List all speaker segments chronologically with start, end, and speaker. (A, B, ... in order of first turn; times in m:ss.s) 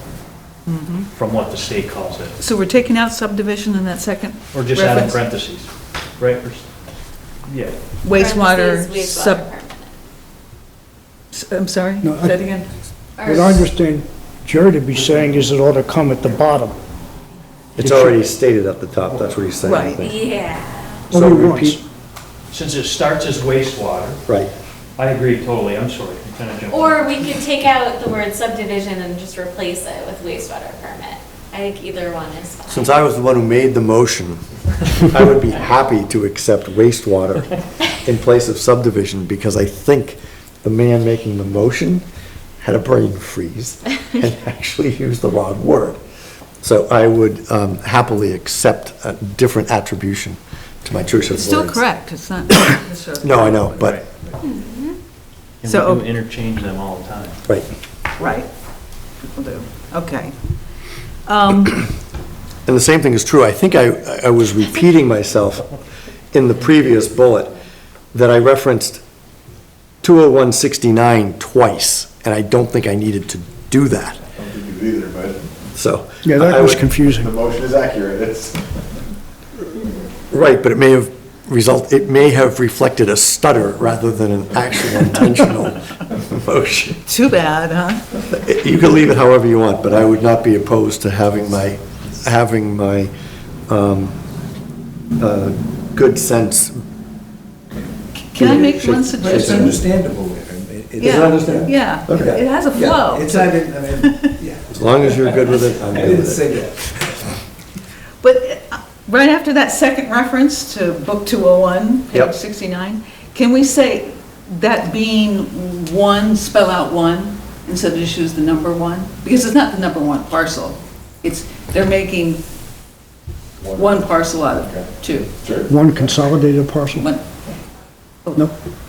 0:00.7-0:01.1 A
0:01.1-0:02.4 B
0:02.4-0:05.2 A
0:04.5-0:06.7 B
0:07.5-0:07.8 B
0:08.0-0:09.5 A
0:08.1-0:09.9 C
0:11.3-0:12.7 A
0:12.0-0:12.4 D
0:13.2-0:13.6 C
0:13.2-0:16.8 D
0:17.8-0:20.2 E
0:17.8-0:18.2 D
0:19.6-0:20.0 A
0:20.0-0:21.1 C
0:21.1-0:21.8 E
0:21.1-0:21.8 D
0:22.5-0:24.2 B
0:25.0-0:27.3 B
0:26.7-0:32.8 C
0:32.7-0:42.1 E
0:42.6-0:46.0 E
0:46.6-0:51.8 E
0:51.3-0:53.8 A
0:53.2-0:54.0 E
0:53.8-0:54.0 B
0:54.4-0:55.0 C
0:55.6-0:57.4 B
0:55.7-0:56.0 A
0:58.2-0:58.5 A
0:59.3-1:00.3 A
1:01.2-1:01.9 A
1:02.7-1:05.7 E
1:06.3-1:07.5 E
1:08.1-1:09.0 E
1:10.0-1:14.2 E
1:14.4-1:15.5 F
1:15.8-1:16.9 E
1:16.2-1:17.3 D
1:17.1-1:18.7 F
1:20.3-1:27.0 E
1:27.1-1:28.0 A
1:28.3-1:33.1 E
1:33.7-1:34.2 E
1:35.2-1:36.8 E
1:38.2-1:39.8 A
1:38.4-1:39.8 E
1:38.4-1:38.7 G
1:39.2-1:47.3 G
1:41.0-1:42.3 E
1:41.0-1:44.3 A
1:44.7-1:46.5 E
1:48.2-2:02.4 A
2:03.7-2:04.1 F
2:03.7-2:05.3 A
2:05.4-2:05.7 F
2:05.6-2:07.1 D
2:06.9-2:07.2 A